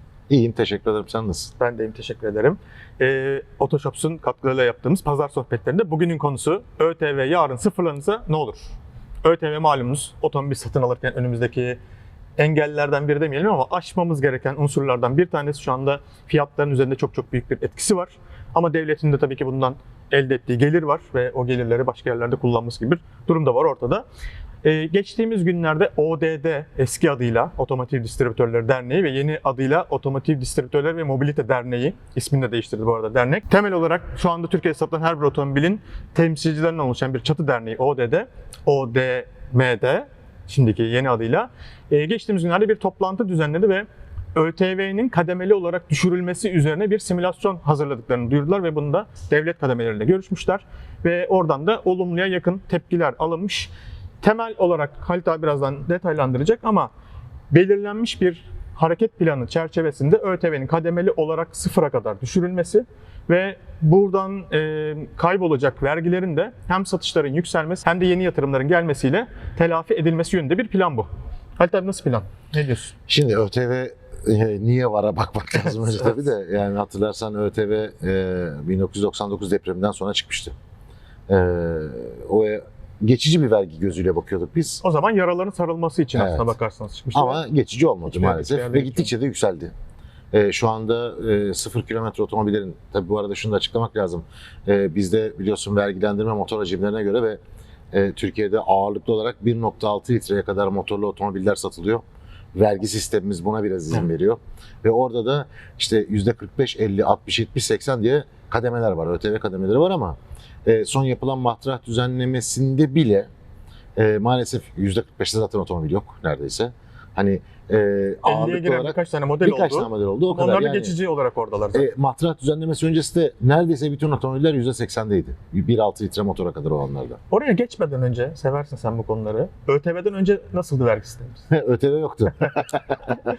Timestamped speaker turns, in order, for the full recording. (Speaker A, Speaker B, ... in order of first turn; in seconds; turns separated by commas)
Speaker A: 0.3-1.5, Speaker B: 1.6-8.7, Speaker B: 9.2-11.8, Speaker B: 12.4-24.0, Speaker B: 24.6-56.9, Speaker B: 57.5-72.9, Speaker A: 73.1-80.5, Speaker A: 81.3-84.8, Speaker B: 84.8-87.4, Speaker A: 86.1-86.5, Speaker A: 87.1-89.7, Speaker B: 88.1-89.1, Speaker A: 90.3-97.4, Speaker A: 97.9-102.0, Speaker A: 102.5-113.3, Speaker A: 114.0-120.9, Speaker B: 118.2-121.9, Speaker A: 121.7-127.2, Speaker B: 127.3-131.4, Speaker A: 131.5-133.2